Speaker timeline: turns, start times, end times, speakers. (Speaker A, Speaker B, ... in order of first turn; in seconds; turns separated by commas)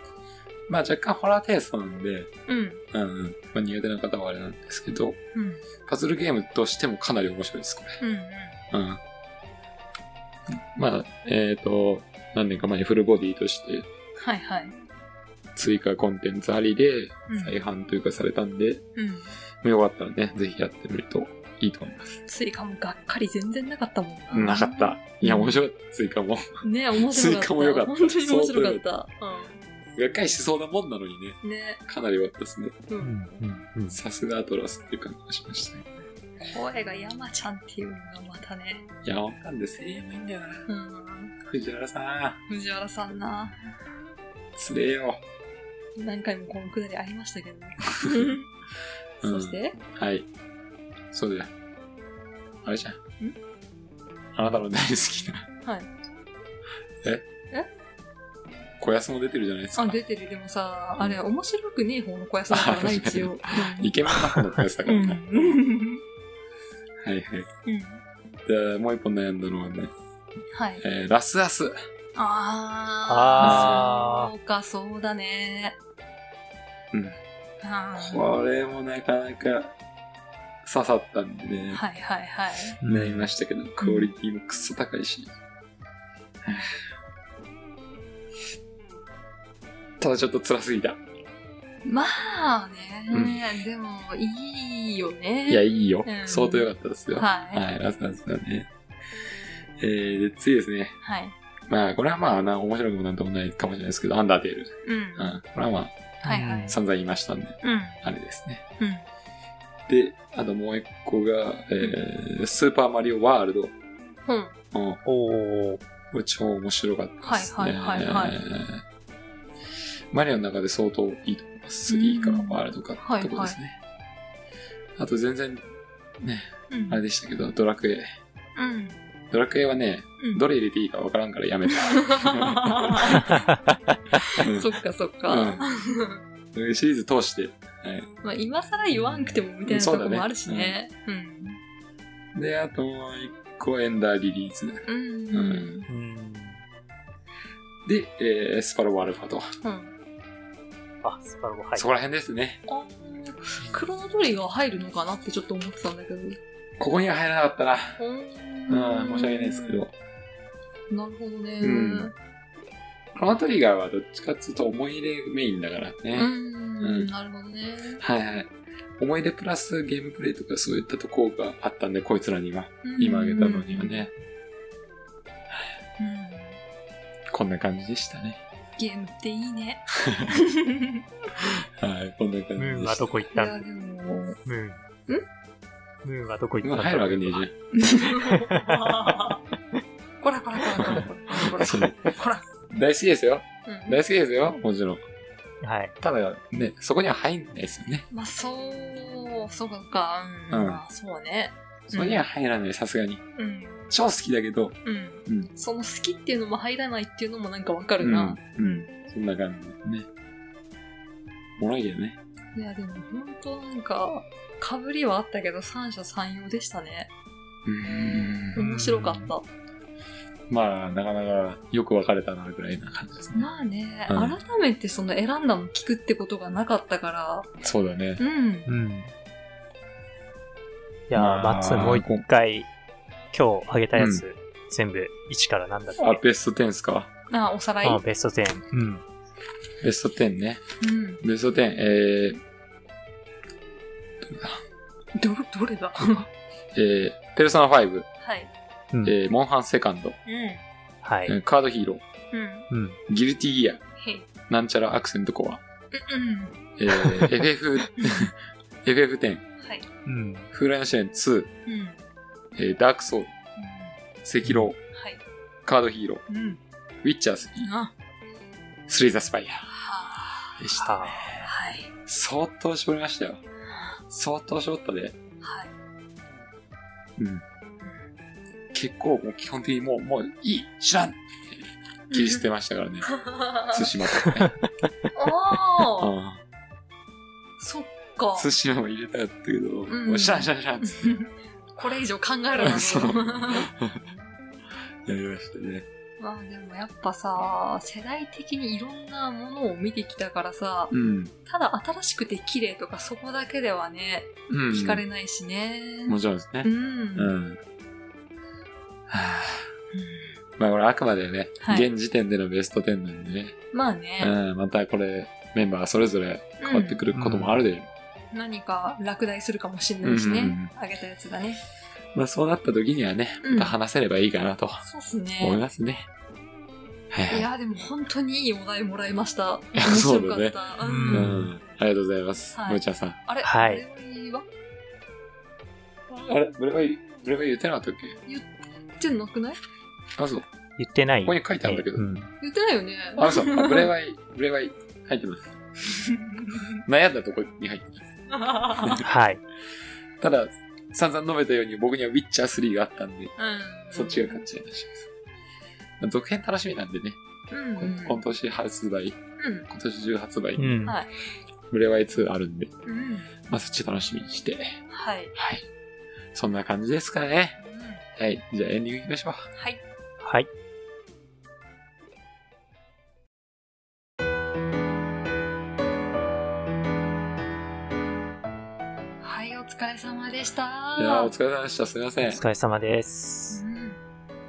Speaker A: 0.7-2.3, Speaker B: 2.5-2.8, Speaker A: 2.9-5.2, Speaker B: 5.3-5.6, Speaker A: 5.9-8.0, Speaker B: 8.0-8.6, Speaker A: 8.7-9.0, Speaker A: 10.7-13.9, Speaker B: 14.2-14.8, Speaker A: 15.6-18.9, Speaker B: 17.3-17.6, Speaker B: 19.0-19.4, Speaker A: 19.6-22.2, Speaker B: 22.3-25.5, Speaker A: 24.3-28.8, Speaker B: 26.6-29.6, Speaker A: 29.9-32.8, Speaker B: 31.4-31.8, Speaker B: 32.9-33.1, Speaker C: 33.0-34.0, Speaker A: 33.9-35.9, Speaker B: 36.4-38.9, Speaker A: 39.0-40.7, Speaker B: 40.7-41.3, Speaker A: 41.4-42.4, Speaker B: 42.5-43.6, Speaker A: 44.5-45.2, Speaker B: 46.0-48.5, Speaker A: 48.0-48.4, Speaker B: 49.2-49.8, Speaker A: 49.2-50.3, Speaker A: 51.1-51.5, Speaker A: 52.6-53.0, Speaker A: 54.4-55.5, Speaker A: 58.8-60.0, Speaker B: 59.8-64.0, Speaker A: 62.5-65.6, Speaker B: 64.8-66.0, Speaker A: 67.0-67.5, Speaker B: 67.7-68.0, Speaker A: 68.5-69.9, Speaker B: 70.5-70.8, Speaker A: 70.8-71.8, Speaker B: 72.2-75.8, Speaker C: 73.1-74.3, Speaker A: 73.4-73.9, Speaker B: 77.6-78.2, Speaker A: 78.0-79.7, Speaker A: 80.6-81.8, Speaker B: 81.7-82.8, Speaker C: 82.8-83.3, Speaker A: 82.8-85.3, Speaker B: 83.8-84.1, Speaker A: 86.4-86.8, Speaker A: 90.0-91.0, Speaker B: 91.8-97.6, Speaker A: 93.1-93.4, Speaker A: 95.5-98.7, Speaker A: 99.8-101.0, Speaker B: 101.0-101.3, Speaker A: 101.7-106.1, Speaker B: 104.8-105.4, Speaker C: 106.2-106.8, Speaker B: 106.2-106.8, Speaker A: 106.7-108.6, Speaker B: 107.6-108.0, Speaker B: 108.8-109.0, Speaker A: 109.9-113.7, Speaker B: 114.3-114.5, Speaker A: 114.7-115.0, Speaker C: 115.0-115.8, Speaker A: 116.1-118.8, Speaker B: 117.2-118.3, Speaker A: 120.1-123.8, Speaker B: 121.9-123.6, Speaker A: 125.0-125.7, Speaker A: 126.2-128.1, Speaker B: 126.7-127.0, Speaker B: 128.6-129.0, Speaker A: 129.3-133.3, Speaker B: 131.7-133.3, Speaker C: 133.2-133.9, Speaker B: 134.2-136.2, Speaker A: 134.4-134.7, Speaker A: 135.3-135.6, Speaker A: 136.5-138.1, Speaker B: 138.2-141.6, Speaker C: 138.9-139.4, Speaker A: 139.7-140.8, Speaker A: 142.3-145.8, Speaker B: 144.9-145.9, Speaker C: 145.9-146.6, Speaker A: 147.8-149.5, Speaker B: 149.6-149.9, Speaker C: 151.0-151.9, Speaker A: 151.8-152.6, Speaker B: 152.7-156.4, Speaker A: 156.8-158.0, Speaker B: 158.0-159.8, Speaker A: 158.7-159.9, Speaker B: 160.9-162.1, Speaker A: 161.6-162.1, Speaker A: 163.2-167.1, Speaker B: 166.2-168.0, Speaker A: 168.0-174.1, Speaker B: 172.8-174.1, Speaker B: 176.0-176.6, Speaker A: 177.3-178.4, Speaker B: 178.8-181.1, Speaker A: 180.0-180.3, Speaker A: 181.4-183.2, Speaker C: 182.6-183.6, Speaker B: 183.3-184.4, Speaker C: 184.4-184.8, Speaker C: 186.0-187.5, Speaker A: 186.6-187.6, Speaker B: 187.7-189.4, Speaker B: 190.2-192.4, Speaker A: 190.8-192.2, Speaker A: 192.7-195.0, Speaker B: 193.7-194.0, Speaker C: 195.6-195.9, Speaker A: 196.0-198.1, Speaker B: 198.1-202.2, Speaker A: 200.5-200.8, Speaker A: 201.9-203.2, Speaker B: 203.4-203.9, Speaker A: 203.9-205.5, Speaker B: 204.8-208.9, Speaker A: 208.0-210.1, Speaker A: 211.6-212.2, Speaker B: 212.5-217.1, Speaker A: 217.7-218.6, Speaker B: 218.6-219.4, Speaker C: 218.6-219.3, Speaker A: 220.5-223.5, Speaker B: 223.3-227.5, Speaker A: 224.1-224.4, Speaker A: 227.6-228.2, Speaker B: 228.2-228.7, Speaker C: 228.7-229.1, Speaker C: 231.1-232.7, Speaker A: 231.2-232.2, Speaker C: 233.3-236.2, Speaker A: 233.9-234.2, Speaker A: 236.0-237.1, Speaker B: 237.3-238.0, Speaker C: 237.8-239.0, Speaker A: 239.8-240.6, Speaker B: 240.8-241.2, Speaker A: 241.2-242.4, Speaker A: 244.2-244.6, Speaker B: 245.2-246.3, Speaker A: 246.7-248.1, Speaker B: 248.2-248.5, Speaker A: 249.0-250.2, Speaker B: 250.3-250.6, Speaker C: 251.0-251.4, Speaker A: 251.3-252.0, Speaker B: 252.3-252.7, Speaker C: 252.7-253.0, Speaker A: 253.1-253.8, Speaker B: 254.0-254.3, Speaker A: 254.5-255.6, Speaker B: 255.9-256.6, Speaker A: 256.8-259.4, Speaker B: 258.0-258.3, Speaker B: 259.6-259.9, Speaker C: 260.1-260.5, Speaker A: 260.5-261.5, Speaker B: 261.7-262.0, Speaker A: 262.6-263.3, Speaker B: 263.6-264.0, Speaker A: 264.2-264.8, Speaker C: 264.4-264.7, Speaker B: 264.9-265.2, Speaker A: 265.6-266.2, Speaker B: 266.3-266.6, Speaker A: 267.0-267.7, Speaker B: 267.6-267.9, Speaker A: 268.9-269.7, Speaker B: 269.7-270.6, Speaker A: 270.6-271.5, Speaker C: 270.8-271.5, Speaker B: 271.4-271.9, Speaker A: 272.1-273.4, Speaker A: 274.1-275.2, Speaker B: 275.4-275.7, Speaker A: 277.2-277.4, Speaker A: 278.7-284.6, Speaker B: 282.1-282.4, Speaker B: 283.1-283.9, Speaker B: 285.1-286.1, Speaker A: 286.0-286.4, Speaker B: 287.6-288.5, Speaker A: 288.4-291.2, Speaker B: 289.9-293.7, Speaker A: 292.6-294.1, Speaker A: 295.1-295.9, Speaker B: 296.2-307.3, Speaker A: 300.9-301.3, Speaker A: 304.5-305.0, Speaker A: 306.1-307.6, Speaker A: 309.1-309.7, Speaker B: 309.9-310.4, Speaker A: 310.6-313.6, Speaker B: 311.6-311.9, Speaker B: 313.7-314.3, Speaker A: 314.2-317.9, Speaker B: 316.6-317.0, Speaker C: 317.1-317.6, Speaker B: 318.3-321.6, Speaker A: 320.0-320.7, Speaker A: 322.1-324.8, Speaker B: 323.4-323.8, Speaker B: 324.8-325.6, Speaker A: 325.4-326.1, Speaker A: 327.1-327.5, Speaker B: 327.3-331.4, Speaker A: 329.8-330.6, Speaker C: 330.8-331.5, Speaker A: 331.1-333.2, Speaker B: 332.6-334.5, Speaker C: 333.4-333.8, Speaker A: 336.1-338.2, Speaker B: 338.3-339.6, Speaker A: 340.2-340.5, Speaker C: 340.8-342.3, Speaker A: 341.2-342.1, Speaker B: 342.4-343.9, Speaker A: 343.2-345.6, Speaker B: 346.0-346.6, Speaker A: 346.7-348.1, Speaker B: 348.3-349.0, Speaker A: 348.7-349.0, Speaker C: 349.0-349.4, Speaker A: 350.2-353.3, Speaker B: 353.4-354.4, Speaker A: 353.9-355.1, Speaker A: 356.0-357.2, Speaker B: 357.5-358.2, Speaker A: 357.8-360.9, Speaker B: 359.4-359.7, Speaker C: 360.6-361.0, Speaker A: 361.7-362.7, Speaker B: 362.9-363.3, Speaker A: 363.5-364.8, Speaker B: 364.9-365.3, Speaker A: 365.4-365.7, Speaker A: 366.3-367.6, Speaker B: 367.6-368.0, Speaker A: 368.2-369.5, Speaker C: 370.2-370.5, Speaker B: 379.2-381.3, Speaker A: 381.0-382.4, Speaker C: 382.2-383.6, Speaker B: 383.5-384.0